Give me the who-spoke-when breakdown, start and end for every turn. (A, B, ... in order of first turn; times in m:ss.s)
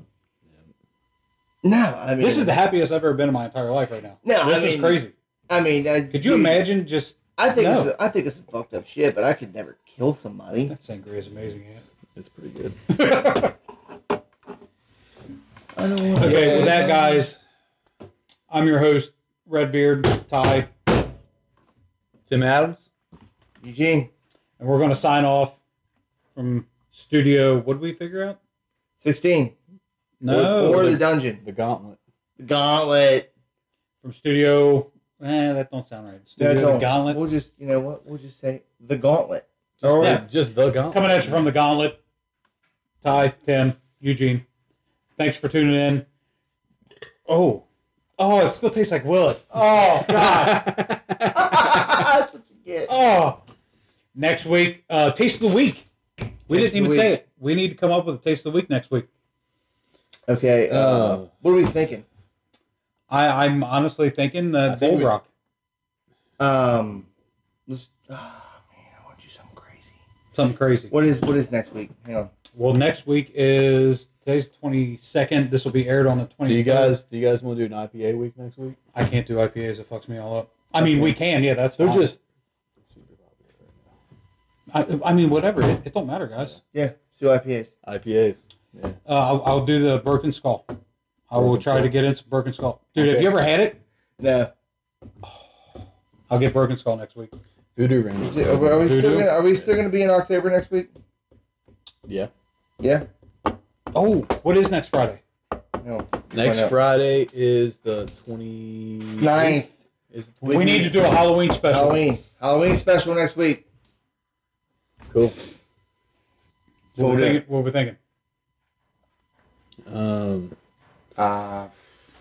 0:01.6-0:02.6 A
0:02.2-0:05.1 B
0:04.2-0:06.6 A
0:06.1-0:07.9 B
0:07.4-0:10.7 A
0:10.7-0:11.9 B
0:12.0-0:12.8 C
0:12.9-0:13.5 B
0:15.8-0:17.3 A
0:16.2-0:17.0 C
0:16.2-0:17.4 B
0:18.5-0:20.7 B
0:22.3-0:22.9 C
0:23.6-0:24.1 A
0:24.6-0:25.6 B
0:26.4-0:28.4 B
0:29.0-0:29.6 A
0:30.2-0:31.0 B
0:30.3-0:31.4 A
0:30.3-0:32.0 C
0:32.4-0:33.3 A
0:34.0-0:37.2 B
0:36.4-0:40.2 A
0:39.8-0:41.4 C
0:40.0-0:40.2 B
0:40.9-0:42.0 B
0:43.0-0:44.4 B
0:45.2-0:46.1 B
0:47.3-0:47.6 B
0:48.2-0:50.8 B
0:50.0-0:52.1 C
0:51.3-0:52.9 A
0:52.9-0:53.4 B
0:54.1-0:55.9 B
0:56.5-0:57.1 A
0:56.5-0:59.1 B
1:00.3-1:02.0 A
1:00.7-1:01.3 C
1:03.1-1:05.3 B
1:04.7-1:05.1 C
1:06.4-1:07.1 A
1:07.7-1:09.9 A
1:10.3-1:10.9 B
1:10.9-1:12.3 A
1:12.6-1:17.0 B
1:16.4-1:18.8 C
1:18.9-1:22.1 B
1:20.8-1:21.2 C
1:21.8-1:22.2 C
1:22.9-1:23.9 C
1:24.7-1:26.6 B
1:26.7-1:27.7 A
1:27.8-1:29.0 C
1:29.1-1:30.7 B
1:31.3-1:33.8 B
1:31.3-1:31.9 C
1:33.0-1:33.4 C
1:34.2-1:34.5 A
1:36.3-1:37.3 B
1:37.8-1:39.0 C
1:38.2-1:40.9 A
1:38.8-1:39.3 B
1:42.8-1:43.0 A
1:43.9-1:45.2 B
1:45.8-1:46.8 A
1:46.3-1:51.0 C
1:49.2-1:49.7 A
1:50.5-1:52.0 B
1:50.5-1:50.9 A
1:51.6-1:53.6 A
1:55.1-1:55.4 C
1:57.0-1:58.0 B
1:57.0-1:57.4 A
1:59.9-2:00.6 C
2:01.2-2:01.7 A